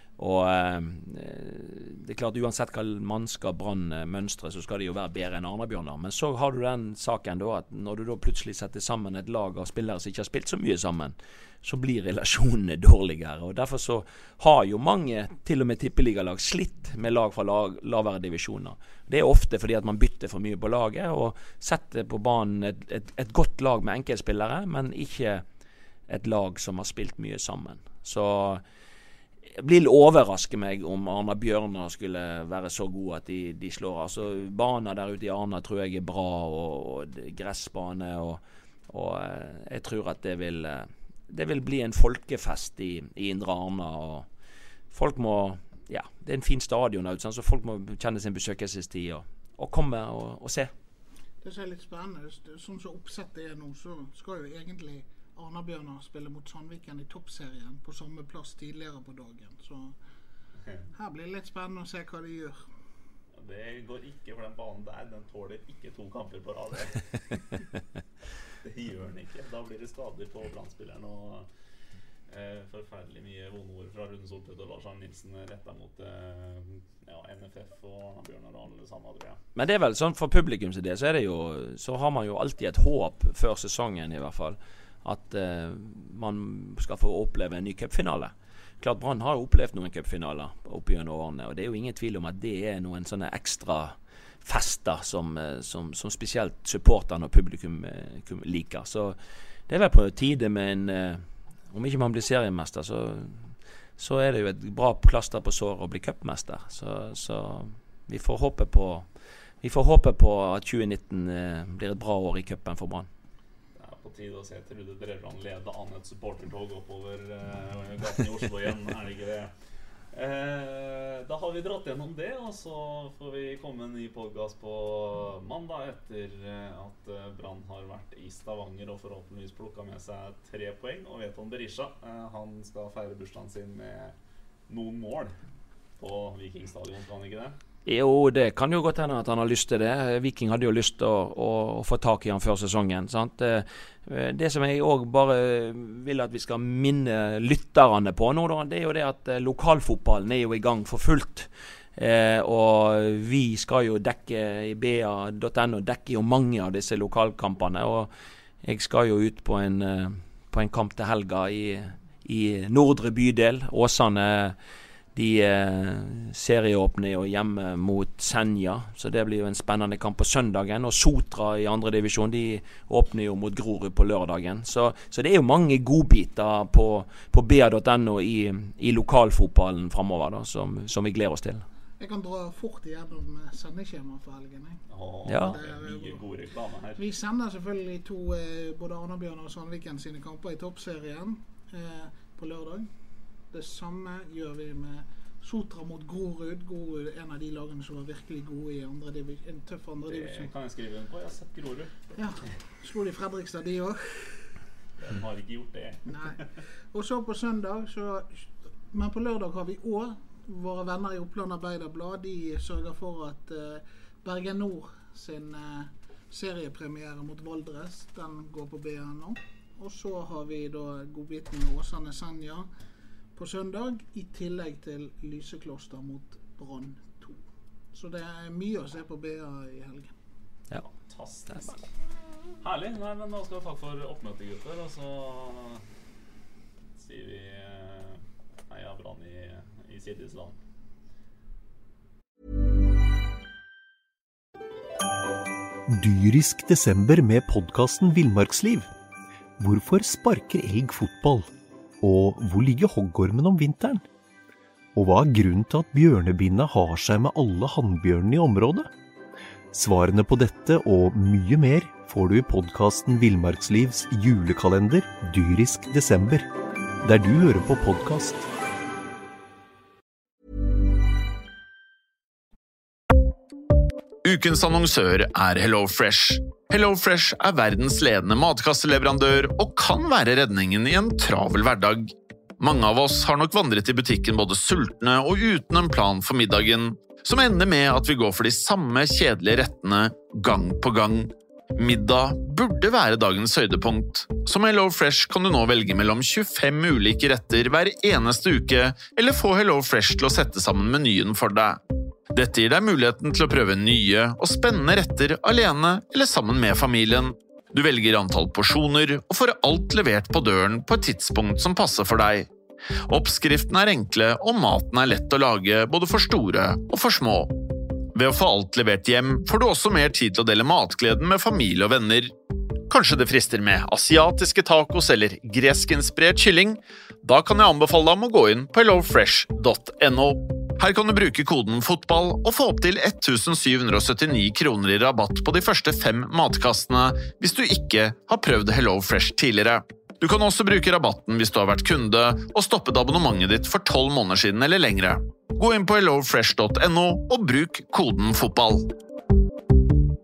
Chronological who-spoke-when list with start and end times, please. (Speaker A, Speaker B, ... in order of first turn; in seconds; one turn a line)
Speaker A: 0.2-25.4
Speaker A: 26.1-28.6
Speaker A: 29.6-44.3
Speaker A: 44.9-50.7
Speaker B: 51.4-59.9
Speaker B: 60.9-62.6
Speaker C: 63.4-67.7
Speaker C: 68.6-71.5
Speaker C: 72.3-79.4
Speaker A: 79.5-99.2
Speaker A: 99.7-109.1
Speaker A: 109.6-113.1
Speaker C: 113.7-119.5
Speaker C: 120.1-134.1
Speaker C: 134.7-135.3
Speaker C: 136.0-137.6
Speaker A: 137.8-158.1
Speaker A: 158.6-164.6
Speaker A: 165.1-181.6
Speaker B: 182.0-184.8
Speaker C: 184.9-187.0
Speaker A: 185.3-185.6
Speaker B: 185.3-186.2
Speaker B: 187.0-192.9
Speaker B: 193.5-200.5
Speaker C: 200.1-202.0
Speaker B: 202.2-204.5
Speaker C: 205.0-206.4
Speaker B: 206.1-206.4
Speaker B: 206.9-222.7
Speaker B: 223.3-227.4
Speaker B: 227.9-230.1
Speaker C: 231.1-231.8
Speaker C: 232.6-235.8
Speaker C: 236.9-240.6
Speaker D: 245.9-248.9
Speaker D: 249.6-251.5
Speaker D: 252.0-254.0
Speaker D: 254.9-258.9
Speaker D: 259.7-266.5
Speaker D: 267.0-268.5
Speaker E: 274.2-301.8
Speaker E: 302.3-312.5
Speaker E: 313.1-317.5
Speaker E: 318.1-322.3
Speaker E: 322.9-348.9